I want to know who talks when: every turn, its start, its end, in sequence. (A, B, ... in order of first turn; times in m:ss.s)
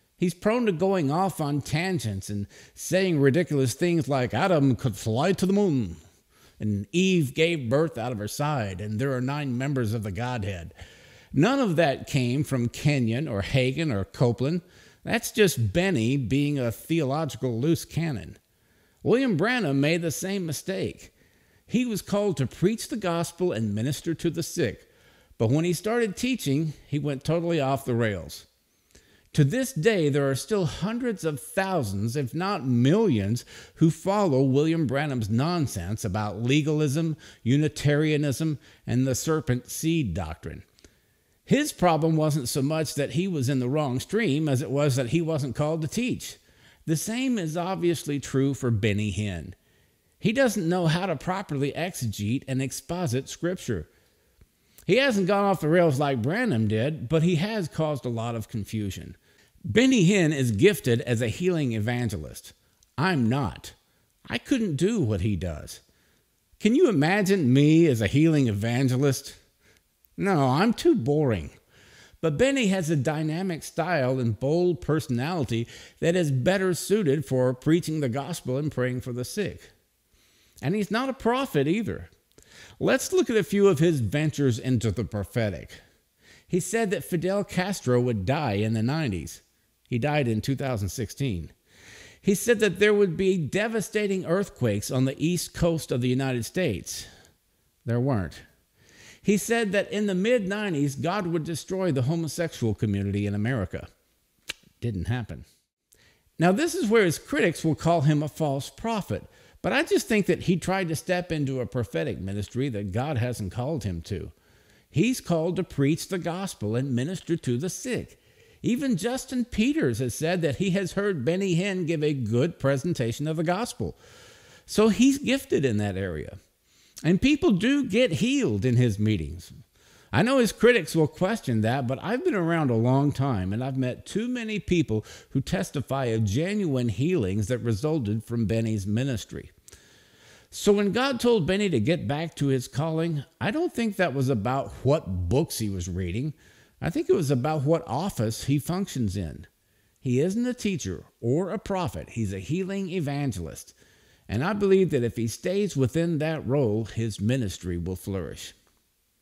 0:00.2-0:06.0 A
0:06.6-0:10.7 A
0:11.3-0:18.4 A
0:19.0-0:21.1 A
0:21.7-0:28.4 A
0:29.3-0:40.6 A
0:41.4-0:49.6 A
0:50.2-0:53.9 A
0:54.8-0:59.2 A
0:59.7-1:03.7 A
1:04.3-1:05.8 A
1:06.6-1:09.4 A
1:10.2-1:11.5 A
1:12.2-1:19.7 A
1:20.6-1:22.1 A
1:22.8-1:25.8 A
1:26.5-1:31.5 A
1:32.2-1:37.1 A
1:37.8-1:38.4 A
1:39.2-1:43.9 A
1:44.8-1:45.4 A
1:46.4-1:54.3 A
1:54.9-2:04.0 A
2:04.7-2:06.4 A
2:07.0-2:09.5 A
2:10.1-2:19.5 A
2:20.5-2:29.5 A
2:30.0-2:33.8 A
2:34.3-2:38.5 A